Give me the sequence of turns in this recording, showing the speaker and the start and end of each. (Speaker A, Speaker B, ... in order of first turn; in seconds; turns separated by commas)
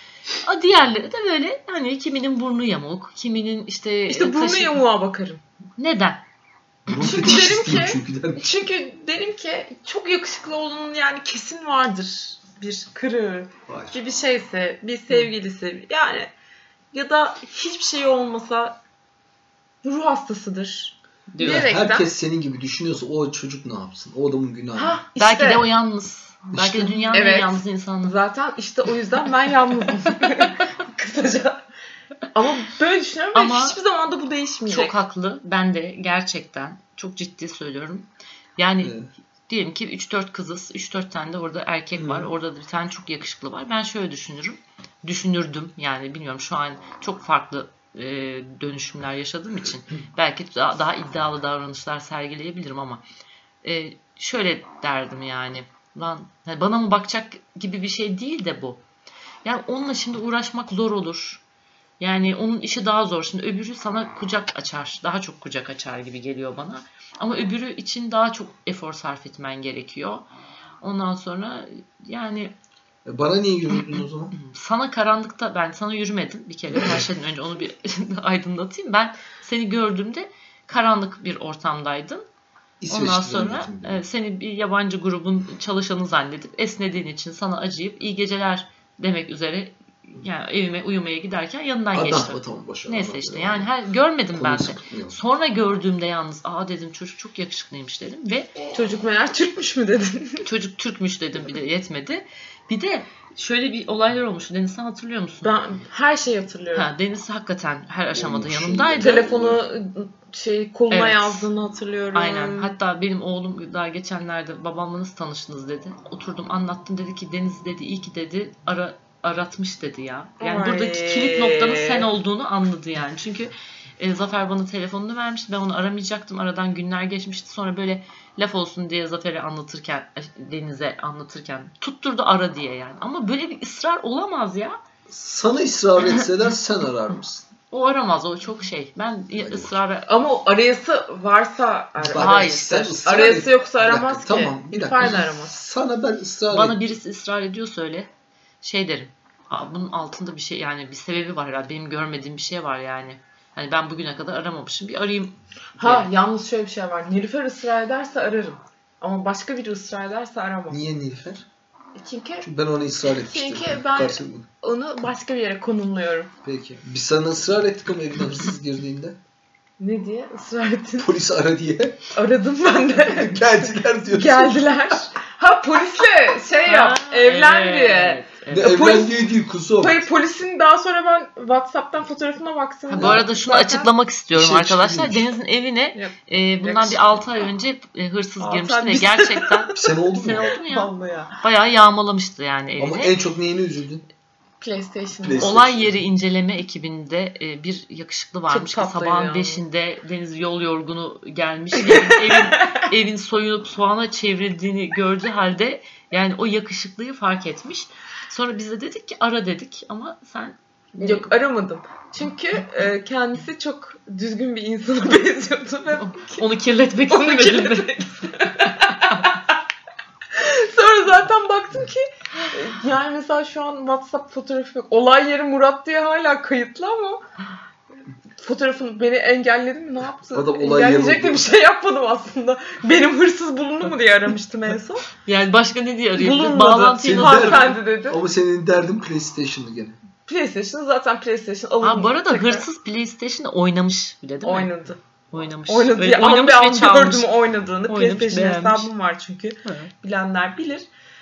Speaker A: 0.4-4.8, Speaker B: 4.1-5.4, Speaker A: 5.8-6.2, Speaker C: 6.9-8.5, Speaker B: 7.0-16.3, Speaker C: 13.7-14.0, Speaker B: 16.9-18.8, Speaker B: 19.8-22.1, Speaker A: 21.3-21.7, Speaker C: 21.4-25.0, Speaker B: 24.8-25.7, Speaker A: 25.2-28.1, Speaker C: 26.5-27.1, Speaker B: 27.1-31.6, Speaker B: 32.3-34.9, Speaker A: 33.3-33.8, Speaker A: 34.7-39.0, Speaker C: 38.8-39.1, Speaker A: 39.5-53.0, Speaker C: 41.9-42.3, Speaker A: 53.6-58.8, Speaker A: 59.4-61.4, Speaker A: 62.0-70.3, Speaker A: 70.8-72.5, Speaker C: 73.0-74.3, Speaker A: 73.7-82.2, Speaker C: 82.8-84.0, Speaker A: 82.9-98.5, Speaker C: 91.9-93.7, Speaker C: 94.3-95.2, Speaker B: 98.7-100.5, Speaker A: 100.4-105.5, Speaker B: 105.4-106.9, Speaker A: 106.7-109.2, Speaker C: 108.1-109.6, Speaker B: 109.0-112.8, Speaker A: 110.9-111.5, Speaker A: 112.1-134.8, Speaker B: 120.4-122.0, Speaker C: 135.1-137.5, Speaker A: 137.7-140.1, Speaker C: 139.3-139.8, Speaker B: 140.1-145.6, Speaker C: 142.0-146.8, Speaker A: 142.1-143.0, Speaker A: 146.5-148.1, Speaker A: 148.6-156.1, Speaker B: 155.8-160.8, Speaker C: 160.7-161.5, Speaker B: 161.9-162.5, Speaker C: 162.4-164.5, Speaker B: 163.1-166.3, Speaker C: 166.4-169.2, Speaker B: 169.8-171.1, Speaker C: 171.0-172.1, Speaker B: 172.2-183.9, Speaker C: 173.0-174.7, Speaker A: 176.7-178.8, Speaker C: 178.5-180.1, Speaker A: 182.9-193.2, Speaker C: 182.9-183.3, Speaker C: 184.3-185.3, Speaker B: 185.9-187.2, Speaker B: 188.4-189.8, Speaker C: 189.8-190.5, Speaker B: 190.5-191.3, Speaker C: 192.8-194.0, Speaker B: 194.6-195.5, Speaker C: 195.2-196.0, Speaker A: 195.4-211.3, Speaker B: 198.5-199.6, Speaker B: 201.8-202.8, Speaker B: 211.0-216.5, Speaker A: 216.0-218.1, Speaker B: 217.1-219.5, Speaker A: 218.9-219.2, Speaker B: 220.3-227.2, Speaker B: 228.4-235.1, Speaker C: 230.3-231.5, Speaker A: 235.2-237.8, Speaker B: 236.2-238.2, Speaker C: 236.9-240.0, Speaker B: 240.3-242.7, Speaker A: 241.8-244.7, Speaker B: 244.4-245.0, Speaker A: 245.3-247.3, Speaker B: 245.7-250.9, Speaker A: 247.9-248.9